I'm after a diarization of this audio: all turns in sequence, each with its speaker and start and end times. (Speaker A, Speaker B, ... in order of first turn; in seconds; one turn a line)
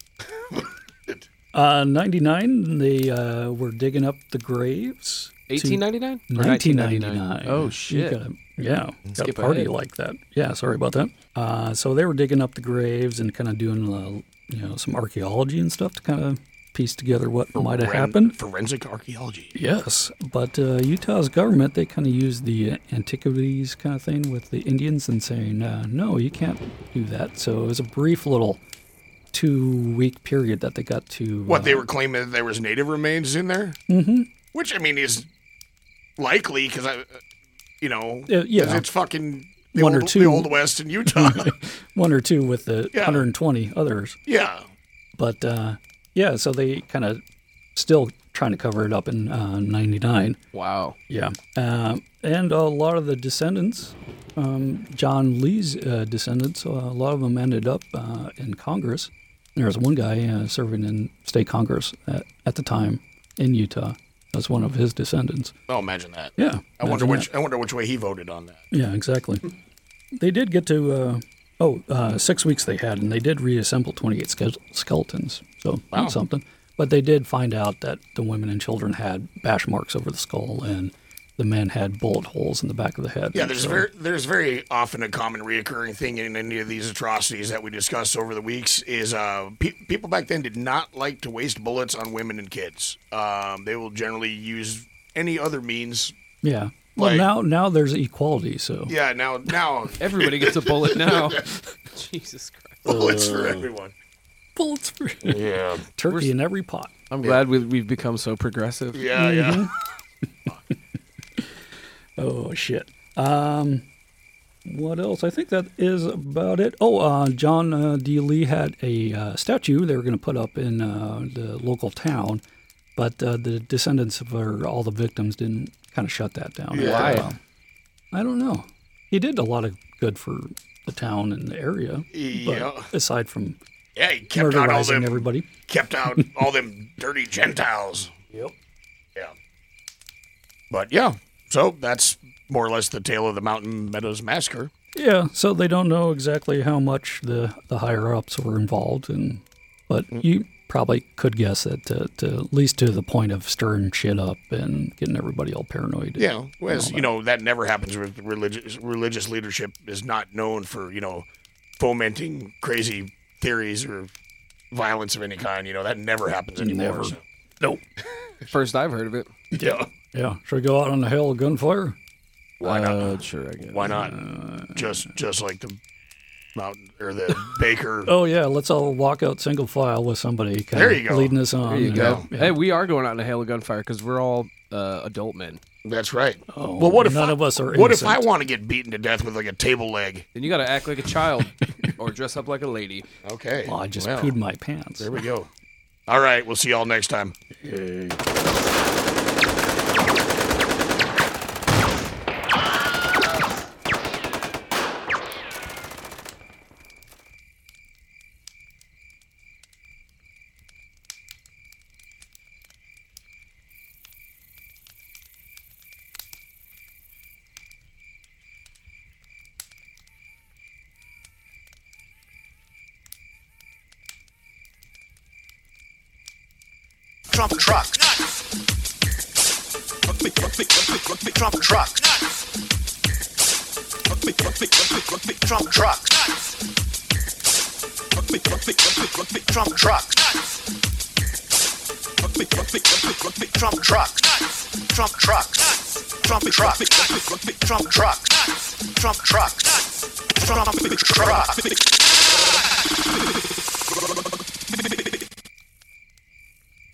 Speaker A: 0.3-1.2
Speaker B: 1.5-18.4
Speaker C: 5.5-8.2
Speaker C: 9.2-9.7
Speaker A: 17.5-19.5
Speaker B: 19.5-28.6
Speaker B: 29.3-31.9
Speaker A: 31.5-33.8
Speaker B: 33.9-34.3
Speaker A: 34.5-35.3
Speaker A: 36.2-37.2
Speaker A: 37.8-41.5
Speaker B: 38.3-38.9
Speaker B: 39.7-40.5
Speaker B: 41.0-44.2
Speaker A: 42.9-43.3
Speaker A: 44.3-44.7
Speaker B: 45.2-47.2
Speaker B: 47.7-50.4
Speaker C: 50.5-51.0
Speaker B: 51.1-65.5
Speaker A: 65.7-68.6
Speaker B: 66.4-67.3
Speaker B: 68.7-69.4
Speaker B: 70.2-83.8
Speaker A: 83.3-96.1
Speaker B: 96.4-98.9
Speaker A: 97.0-97.3
Speaker A: 98.9-101.4
Speaker C: 100.0-102.9
Speaker B: 102.8-103.6
Speaker A: 102.9-103.9
Speaker B: 104.5-106.9
Speaker A: 105.2-105.8
Speaker C: 107.1-109.0
Speaker A: 108.9-109.7
Speaker B: 109.1-109.7
Speaker B: 112.2-113.8
Speaker B: 114.6-122.4
Speaker B: 123.0-127.4
Speaker A: 126.7-127.3
Speaker C: 126.7-127.3
Speaker B: 128.1-133.6
Speaker A: 132.1-132.9
Speaker A: 133.9-138.1
Speaker B: 134.3-135.5
Speaker A: 140.7-144.7
Speaker B: 144.9-157.1
Speaker A: 156.2-161.3
Speaker A: 161.8-164.1
Speaker A: 164.7-167.2
Speaker B: 166.6-167.8
Speaker C: 168.5-169.3
Speaker A: 169.5-169.9
Speaker B: 169.6-171.9
Speaker A: 172.6-174.2
Speaker C: 172.6-173.9
Speaker B: 173.8-175.1
Speaker A: 174.7-175.8
Speaker A: 176.5-178.1
Speaker B: 178.1-182.6
Speaker A: 180.7-181.4
Speaker C: 181.7-185.6
Speaker A: 181.9-182.2
Speaker A: 185.8-190.3
Speaker B: 186.5-188.3
Speaker C: 190.3-193.1
Speaker A: 193.2-194.3
Speaker B: 193.6-195.1
Speaker A: 195.0-195.5
Speaker A: 196.1-197.3
Speaker B: 197.6-198.2
Speaker D: 227.3-228.1
Speaker D: 231.4-232.2
Speaker D: 235.5-236.2
Speaker D: 239.5-240.2
Speaker D: 243.6-244.3
Speaker D: 244.9-246.8
Speaker D: 247.7-248.2
Speaker D: 248.9-249.6
Speaker D: 250.5-251.6